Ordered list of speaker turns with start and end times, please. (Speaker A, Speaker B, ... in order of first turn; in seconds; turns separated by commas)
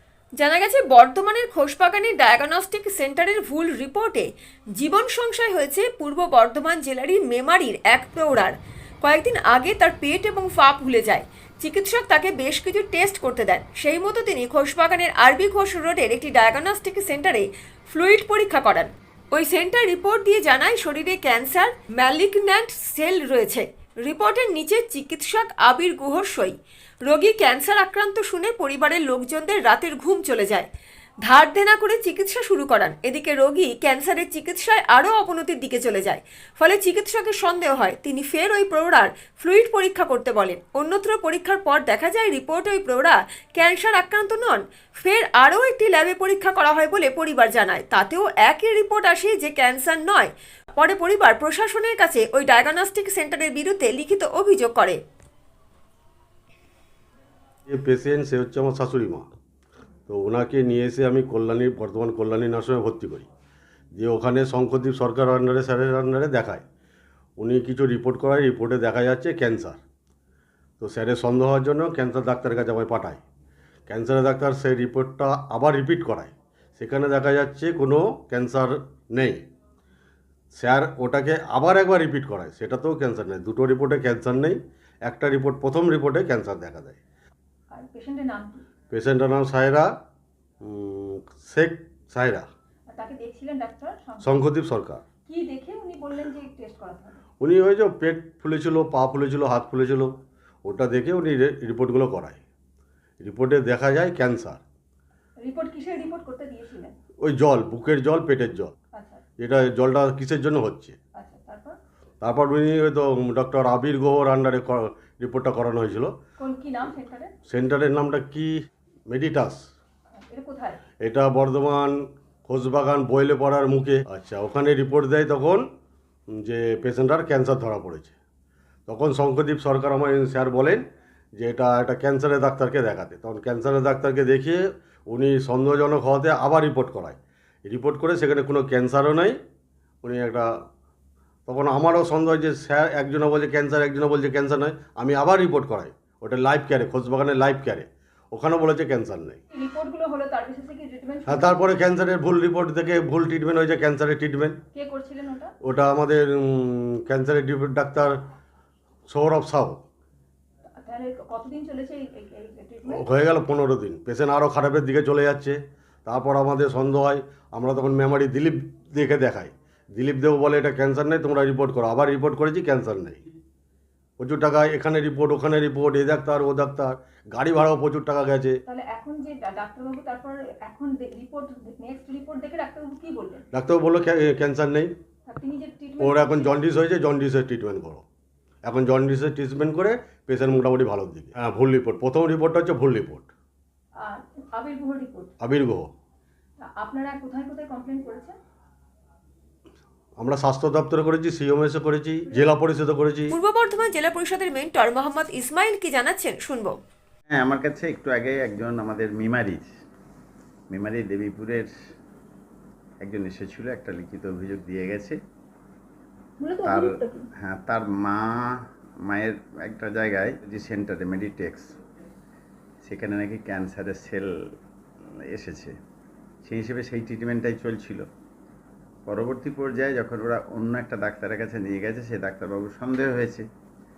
Speaker A: 0.4-30.7, Speaker A: 31.2-55.0, Speaker B: 57.6-59.3, Speaker B: 60.1-63.3, Speaker B: 64.0-66.6, Speaker B: 67.4-69.8, Speaker B: 70.8-73.2, Speaker B: 73.9-79.4, Speaker B: 80.5-87.0, Speaker C: 87.7-88.6, Speaker B: 88.9-89.9, Speaker B: 90.6-92.5, Speaker C: 92.9-94.4, Speaker B: 94.2-95.0, Speaker C: 95.3-97.2, Speaker B: 97.4-102.4, Speaker B: 103.2-104.6, Speaker C: 105.4-106.9, Speaker B: 107.2-108.7, Speaker C: 108.9-109.2, Speaker B: 109.4-111.0, Speaker C: 111.1-111.8, Speaker B: 112.2-116.1, Speaker C: 116.4-117.3, Speaker B: 117.5-118.5, Speaker B: 119.1-119.7, Speaker C: 120.1-120.8, Speaker B: 121.0-125.6, Speaker B: 126.3-128.1, Speaker B: 128.9-130.8, Speaker B: 131.4-139.4, Speaker B: 140.0-140.5, Speaker B: 141.5-149.4, Speaker C: 149.5-151.7, Speaker B: 151.3-154.6, Speaker C: 154.7-155.5, Speaker B: 155.6-158.2, Speaker B: 159.1-159.8, Speaker C: 160.8-163.0, Speaker B: 162.9-173.2, Speaker B: 174.2-178.6, Speaker C: 178.7-183.4, Speaker B: 183.5-184.9, Speaker C: 185.3-186.6, Speaker B: 186.0-188.0, Speaker B: 188.6-193.3, Speaker C: 194.0-195.3, Speaker B: 195.4-195.9, Speaker C: 196.6-198.4, Speaker B: 200.2-203.3, Speaker A: 203.3-206.8, Speaker D: 207.3-209.7, Speaker D: 210.7-211.7, Speaker D: 213.0-215.2, Speaker C: 216.4-217.3, Speaker D: 216.6-218.5, Speaker D: 219.1-221.7, Speaker D: 222.8-224.3, Speaker D: 225.3-225.7, Speaker D: 226.4-228.0, Speaker D: 229.1-233.5